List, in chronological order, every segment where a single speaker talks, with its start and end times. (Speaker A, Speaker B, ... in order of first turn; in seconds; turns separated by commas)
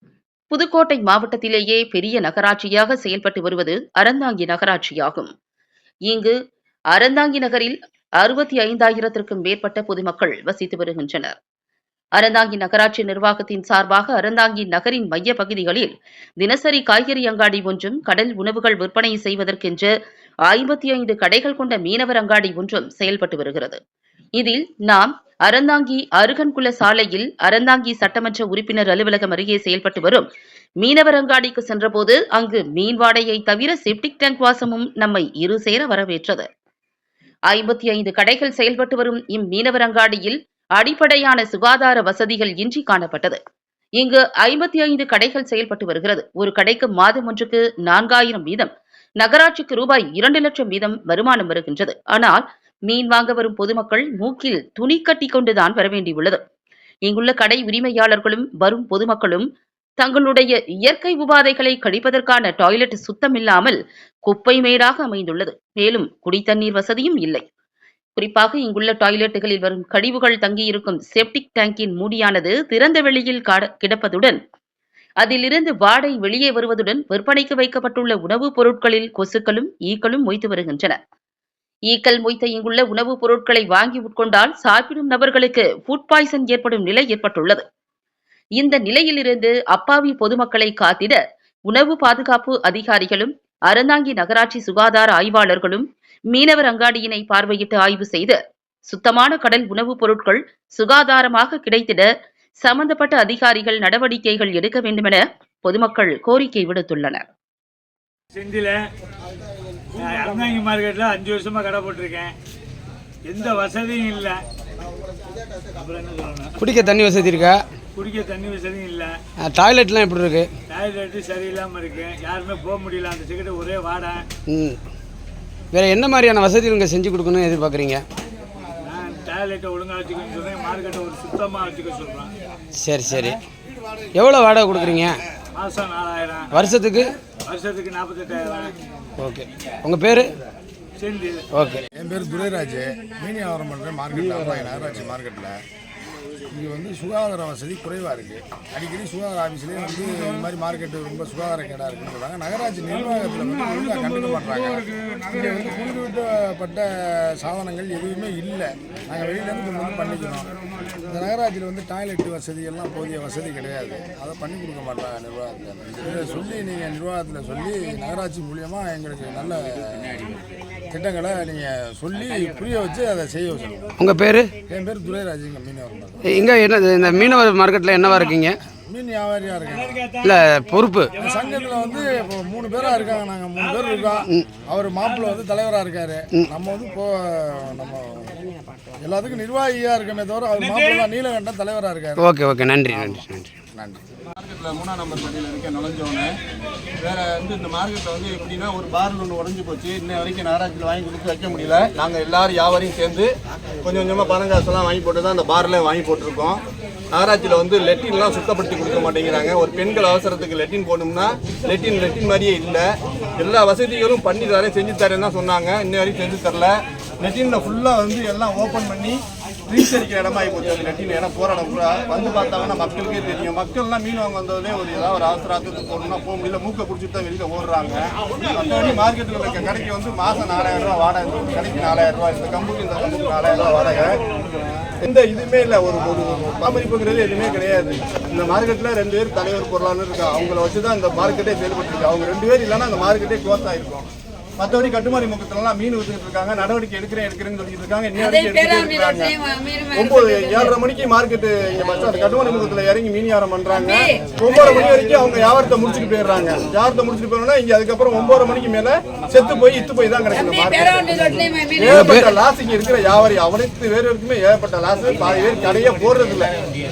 Speaker A: 0.5-5.3, Speaker A: 6.1-6.3, Speaker A: 6.9-11.3, Speaker A: 12.2-19.9, Speaker A: 20.5-23.8, Speaker A: 24.4-30.3, Speaker A: 30.8-36.5, Speaker A: 37.5-43.4, Speaker A: 44.0-56.4, Speaker A: 57.0-59.5, Speaker A: 60.0-67.4, Speaker A: 68.2-74.4, Speaker A: 75.2-81.0, Speaker A: 81.9-87.6, Speaker A: 88.6-102.1, Speaker A: 102.6-107.2, Speaker B: 108.3-108.8, Speaker B: 110.0-112.3, Speaker B: 113.3-114.4, Speaker B: 115.7-116.6, Speaker C: 116.6-117.6, Speaker B: 118.0-119.2, Speaker C: 119.4-120.5, Speaker B: 120.7-124.2, Speaker C: 124.5-124.8, Speaker C: 125.7-128.0, Speaker B: 128.8-132.3, Speaker C: 132.8-133.4, Speaker C: 134.1-135.2, Speaker B: 135.6-136.6, Speaker C: 136.5-137.1, Speaker B: 137.5-138.7, Speaker C: 139.2-140.3, Speaker B: 141.0-141.5, Speaker C: 141.5-141.8, Speaker D: 141.9-145.6, Speaker D: 146.5-160.5, Speaker D: 161.1-170.3, Speaker D: 170.9-173.9, Speaker C: 174.0-174.5, Speaker D: 174.7-176.2, Speaker C: 176.2-178.6, Speaker D: 178.8-180.0, Speaker B: 179.7-180.4, Speaker C: 180.2-181.1, Speaker B: 181.1-181.7, Speaker D: 181.2-188.4, Speaker B: 183.6-184.2, Speaker D: 189.0-192.2, Speaker B: 190.6-191.1, Speaker C: 192.2-193.5, Speaker D: 192.9-194.0, Speaker E: 194.3-196.3, Speaker E: 197.0-206.6, Speaker E: 207.1-234.2, Speaker E: 235.0-249.3, Speaker E: 249.9-266.5, Speaker C: 261.9-262.3